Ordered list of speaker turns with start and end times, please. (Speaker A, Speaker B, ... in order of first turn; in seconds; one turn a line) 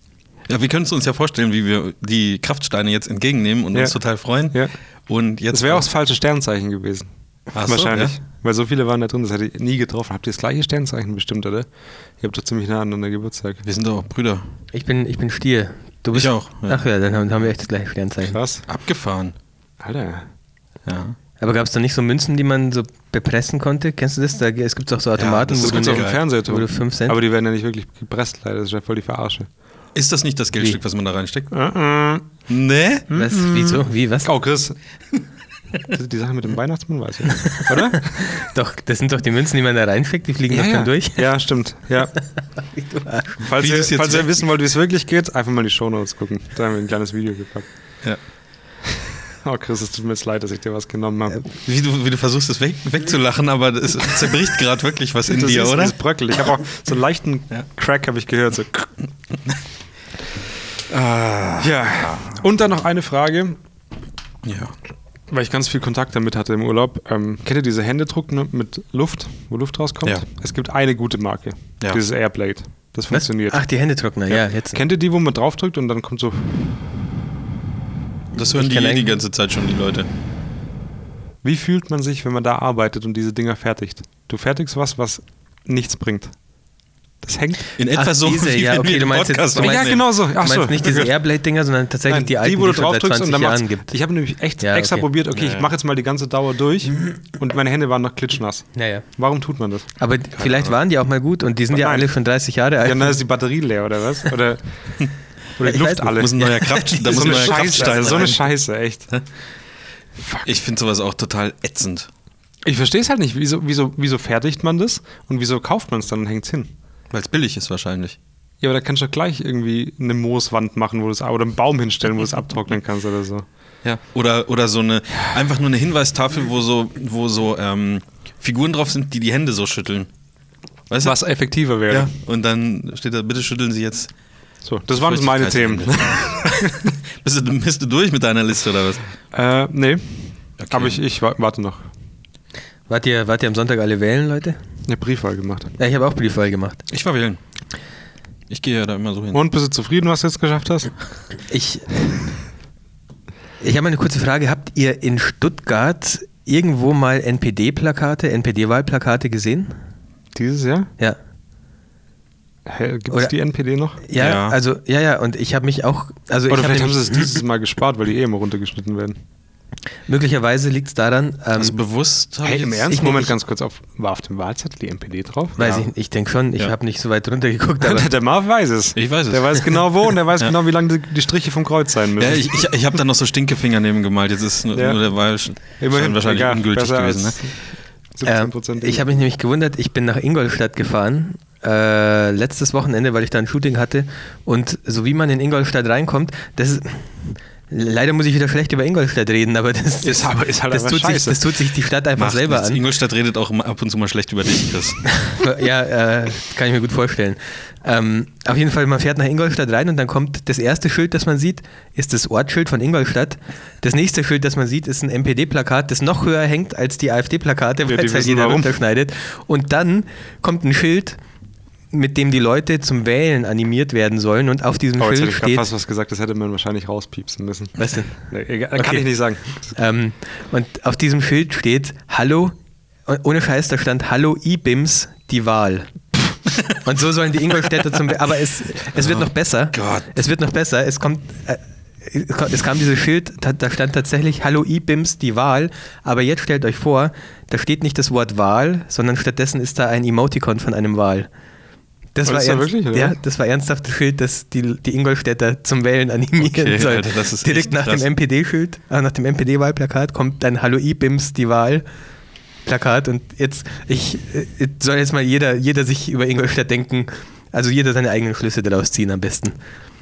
Speaker A: 0.5-5.9
Speaker B: 3.7-4.0
Speaker B: 5.5-7.1
Speaker A: 7.5-8.2
Speaker B: 7.6-11.7
Speaker B: 12.2-13.6
Speaker A: 13.6-14.5
Speaker C: 14.7-18.4
Speaker A: 16.1-16.8
Speaker B: 18.2-18.6
Speaker A: 18.7-19.3
Speaker B: 19.8-20.3
Speaker A: 20.8-21.2
Speaker C: 21.4-27.2
Speaker A: 25.2-26.2
Speaker B: 25.5-29.5
Speaker A: 29.9-31.6
Speaker B: 31.5-32.3
Speaker A: 32.5-33.1
Speaker B: 33.1-34.8
Speaker C: 33.1-34.3
Speaker B: 35.9-38.2
Speaker C: 37.5-41.4
Speaker B: 40.5-42.1
Speaker C: 42.6-43.4
Speaker B: 43.4-47.7
Speaker A: 43.5-44.3
Speaker B: 49.0-51.4
Speaker A: 51.6-56.0
Speaker B: 55.2-58.9
Speaker A: 60.9-62.4
Speaker B: 61.6-63.6
Speaker A: 64.4-64.7
Speaker B: 65.3-73.6
Speaker C: 73.1-74.8
Speaker B: 74.3-76.8
Speaker A: 78.3-80.1
Speaker C: 78.5-79.1
Speaker B: 81.4-86.3
Speaker B: 87.2-87.7
Speaker A: 87.8-90.1
Speaker C: 87.9-93.9
Speaker B: 89.6-91.1
Speaker B: 92.1-99.9
Speaker C: 94.6-95.1
Speaker A: 95.3-95.7
Speaker C: 98.7-99.0
Speaker C: 100.0-103.2
Speaker A: 100.3-100.7
Speaker B: 101.7-102.1
Speaker B: 102.8-105.0
Speaker B: 105.6-106.4
Speaker C: 105.6-108.3
Speaker A: 106.1-108.5
Speaker B: 107.0-109.1
Speaker B: 110.2-110.5
Speaker A: 110.4-112.1
Speaker B: 112.6-116.7
Speaker A: 117.1-118.2
Speaker B: 118.6-123.5
Speaker A: 123.8-130.1
Speaker A: 130.9-131.2
Speaker B: 131.0-132.1
Speaker A: 131.7-134.1
Speaker B: 134.6-136.9
Speaker A: 134.9-139.1
Speaker B: 139.3-141.9
Speaker A: 140.6-141.0
Speaker C: 142.9-144.6
Speaker B: 144.9-145.8
Speaker C: 145.8-146.8
Speaker A: 146.9-147.4
Speaker A: 148.5-149.4
Speaker B: 149.3-150.9
Speaker C: 151.5-151.9
Speaker C: 153.6-159.8
Speaker B: 160.3-160.9
Speaker B: 162.7-164.0
Speaker C: 164.0-167.4
Speaker A: 164.2-164.6
Speaker B: 166.5-169.2
Speaker C: 170.1-171.7
Speaker A: 171.6-173.0
Speaker B: 172.4-175.6
Speaker C: 172.9-173.3
Speaker C: 175.6-178.1
Speaker A: 175.6-175.9
Speaker B: 177.8-182.7
Speaker A: 178.9-179.8
Speaker A: 182.2-187.5
Speaker B: 184.7-185.0
Speaker B: 185.6-187.6
Speaker B: 188.1-189.0
Speaker C: 188.2-202.8
Speaker B: 200.0-201.4
Speaker A: 202.2-205.2
Speaker C: 205.3-221.2
Speaker B: 217.8-218.7
Speaker C: 221.9-225.7
Speaker B: 225.0-229.8
Speaker C: 227.8-229.1
Speaker C: 229.7-232.5
Speaker C: 233.1-235.9
Speaker C: 236.8-251.3
Speaker A: 238.9-240.1
Speaker C: 252.1-261.8
Speaker B: 252.2-253.2
Speaker A: 256.4-258.1
Speaker C: 262.6-269.6